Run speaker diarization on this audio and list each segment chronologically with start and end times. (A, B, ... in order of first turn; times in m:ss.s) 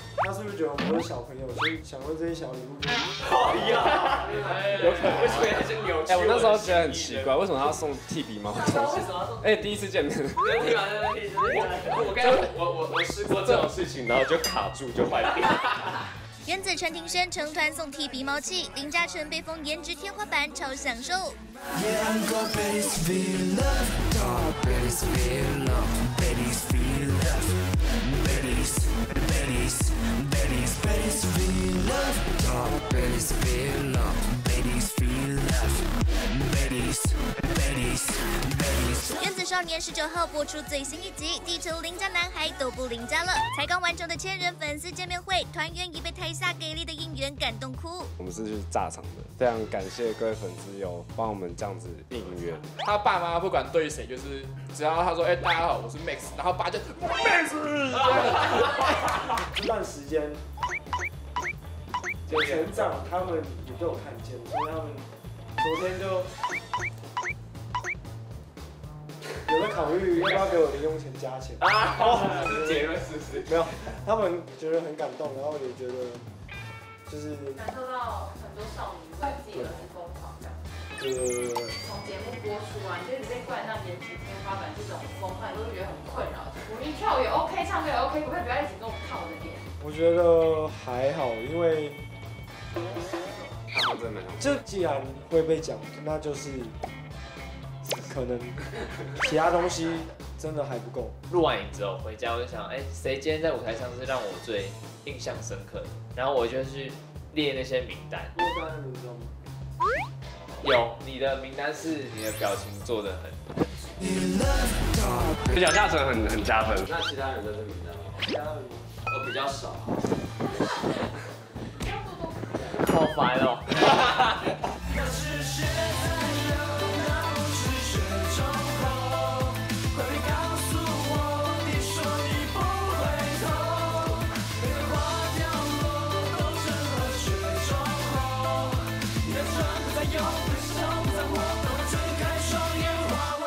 0:00.2-0:03.9 A
0:03.2-0:07.3 B
0:04.4-0:05.4 A
0:04.8-0:05.4 C
0:06.0-0:10.6 C
0:08.5-0:09.0 D
0:10.4-0:15.9 B
0:16.4-0:21.4 E
0:39.1-0:48.1 E
0:48.2-0:52.6 C
0:52.8-0:59.3 F
0:59.5-1:00.4 A
1:02.2-1:05.0 A
1:02.3-1:03.0 B
1:05.6-1:06.3 A
1:09.4-1:16.2 A
1:10.0-1:10.6 B
1:11.6-1:13.5 B
1:17.0-1:17.6 A
1:17.5-1:20.6 D
1:21.0-1:21.8 A
1:21.8-1:29.6 D
1:29.8-1:32.0 A
1:33.2-1:33.5 D
1:33.7-1:34.6 C
1:34.4-1:36.7 A
1:37.9-1:38.6 A
1:39.2-1:40.2 D
1:39.2-1:41.2 A
1:41.3-1:48.3 G
1:48.3-1:49.3 A
1:50.6-1:54.0 G
1:55.3-1:57.6 C
1:57.6-1:58.0 B
1:58.2-1:58.9 A
2:00.6-2:01.0 D
2:01.8-2:03.0 D
2:02.7-2:04.5 G